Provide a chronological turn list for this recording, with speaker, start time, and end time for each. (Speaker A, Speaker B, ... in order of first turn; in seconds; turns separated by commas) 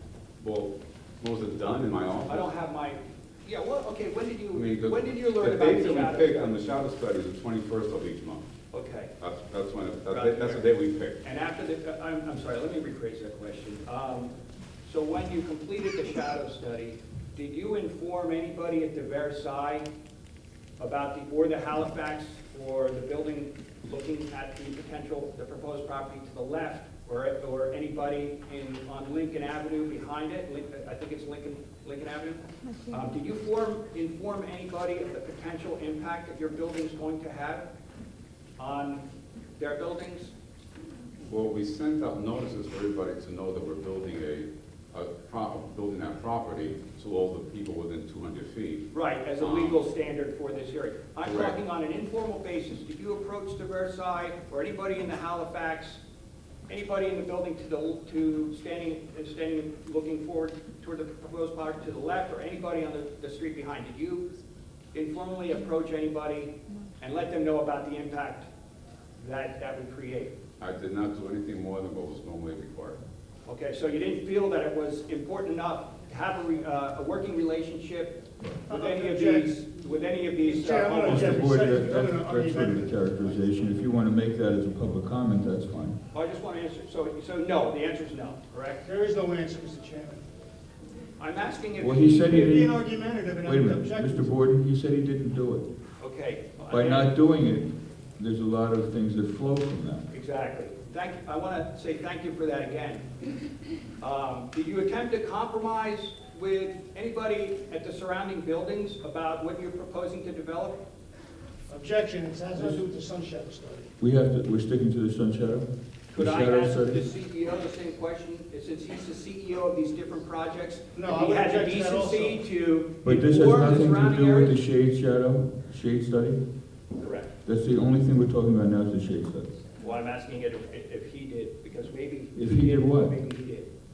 Speaker A: 0.4-2.5, Speaker B: 2.3-6.5, Speaker A: 4.5-8.5, Speaker B: 8.7-9.1, Speaker A: 9.2-11.2, Speaker B: 10.1-10.6, Speaker B: 11.2-14.3, Speaker B: 14.8-19.9, Speaker B: 20.8-37.7, Speaker B: 38.6-39.0, Speaker B: 39.6-40.3, Speaker A: 41.2-49.8, Speaker B: 48.9-56.0, Speaker A: 51.2-51.5, Speaker B: 56.7-64.3, Speaker B: 64.9-68.5, Speaker B: 69.2-70.3, Speaker A: 70.6-73.0, Speaker B: 73.5-81.4, Speaker C: 78.7-79.5, Speaker C: 80.4-83.0, Speaker D: 81.0-86.0, Speaker B: 86.1-88.8, Speaker C: 88.8-90.2, Speaker B: 91.2-92.4, Speaker D: 91.8-92.8, Speaker C: 92.2-94.3, Speaker D: 93.4-95.7, Speaker B: 96.0-97.1, Speaker D: 96.7-100.0, Speaker B: 100.1-103.1, Speaker B: 104.0-110.8, Speaker C: 111.7-113.9, Speaker D: 114.0-117.0, Speaker B: 116.1-124.6, Speaker C: 120.9-122.4, Speaker D: 123.0-126.4, Speaker B: 127.0-127.3, Speaker D: 127.4-129.5, Speaker B: 129.8-133.7, Speaker D: 132.3-133.1